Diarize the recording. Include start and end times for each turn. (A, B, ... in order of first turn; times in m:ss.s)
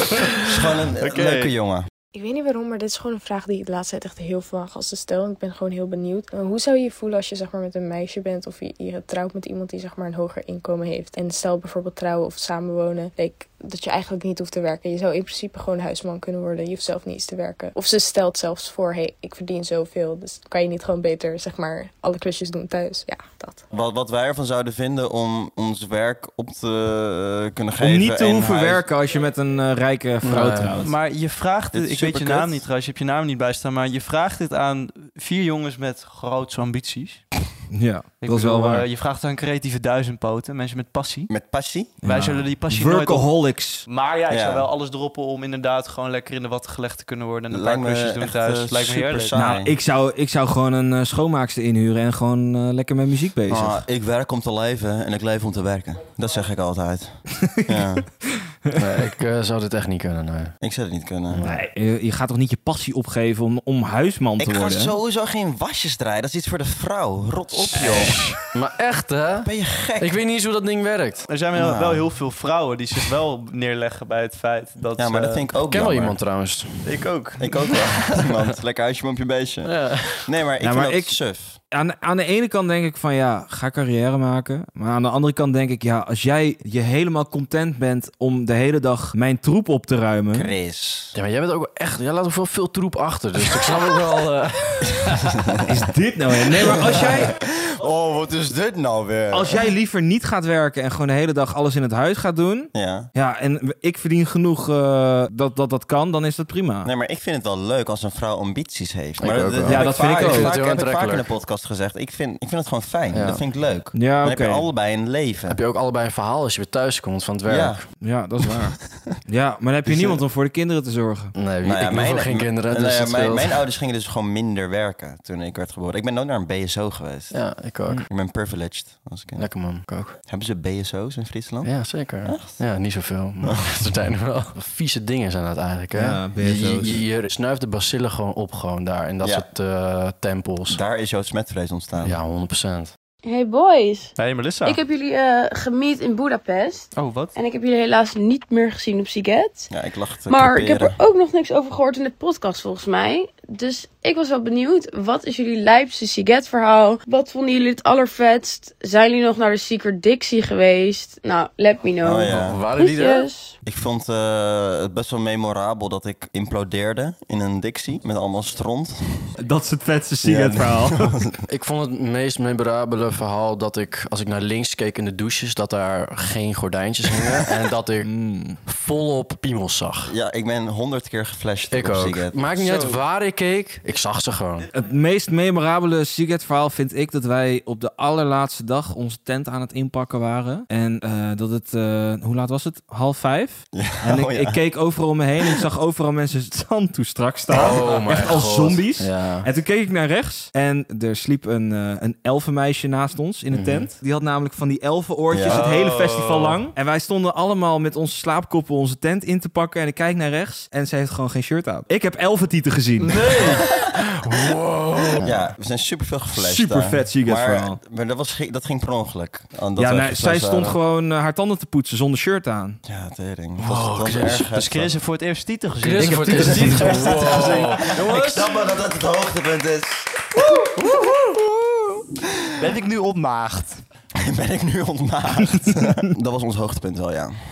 0:00.4-0:01.9 A
0:01.0-0:01.5 B
0:02.1-0:23.6 C
0:23.7-0:28.9 A
0:27.8-0:30.9 D
0:30.2-0:30.8 E
0:30.8-0:37.3 B
0:31.7-0:32.7 A
0:37.7-0:38.9 D
0:38.2-0:41.3 B
0:41.3-0:41.9 A
0:42.0-0:43.9 D
0:42.0-0:43.3 B
0:43.9-0:49.4 B
0:44.3-0:44.7 A
0:47.5-0:49.8 A
0:49.4-0:53.8 D
0:53.5-0:58.1 A
0:57.5-0:57.8 D
0:58.8-1:00.6 E
1:00.6-1:01.4 A
1:01.3-1:01.6 E
1:01.4-1:05.0 D
1:04.4-1:08.3 A
1:07.8-1:08.2 D
1:08.5-1:11.3 E
1:09.4-1:10.2 A
1:11.3-1:15.5 B
1:11.5-1:12.1 A
1:15.0-1:16.2 A
1:15.7-1:17.0 E
1:16.8-1:17.7 B
1:17.4-1:21.6 A
1:19.6-1:20.3 E
1:20.6-1:21.2 D
1:21.7-1:30.5 D
1:30.3-1:31.2 A
1:31.1-1:35.4 E
1:35.7-1:37.3 D
1:36.7-1:39.7 A
1:39.3-1:46.9 D
1:42.7-1:43.1 A
1:46.8-1:55.6 A
1:49.2-1:51.3 E
1:49.7-1:50.6 D
1:53.1-1:53.4 E
1:53.9-1:54.7 D
1:55.5-1:57.8 E
1:57.5-1:57.8 A
1:58.0-2:01.3 D
1:59.9-2:00.2 E
2:01.4-2:03.6 E
2:01.6-2:07.4 A
2:07.3-2:08.1 E
2:08.1-2:09.5 A
2:09.4-2:10.2 E
2:10.2-2:12.6 A
2:11.6-2:20.8 E
2:16.0-2:17.0 D
2:20.7-2:22.2 A
2:22.0-2:22.9 E
2:23.2-2:29.7 F
2:24.2-2:24.8 B
2:26.9-2:27.4 B
2:29.7-2:31.0 A
2:30.3-2:43.6 F
2:42.0-2:42.6 A
2:42.3-2:43.3 E
2:43.6-2:49.3 A
2:49.4-2:51.1 D
2:50.2-2:51.4 A
2:51.5-2:58.1 E
2:58.0-2:58.6 D
2:58.6-3:00.1 E
3:00.1-3:02.4 A
3:01.7-3:04.7 E
3:02.6-3:03.0 D
3:04.7-3:33.3 D
3:13.7-3:14.6 A
3:17.5-3:17.8 A
3:17.5-3:19.5 E
3:23.5-3:23.9 E
3:25.3-3:25.7 A
3:25.5-3:26.6 B
3:33.1-3:33.6 B
3:33.2-3:33.7 E
3:34.3-3:35.4 E
3:35.2-3:40.8 A
3:36.4-3:37.8 D
3:39.8-3:42.8 D
3:42.8-3:45.0 A
3:43.6-3:44.5 E
3:44.5-3:48.4 B
3:45.8-3:48.5 E
3:46.0-3:46.8 D
3:46.2-3:51.7 A
3:52.6-3:53.8 B
3:54.2-3:57.3 A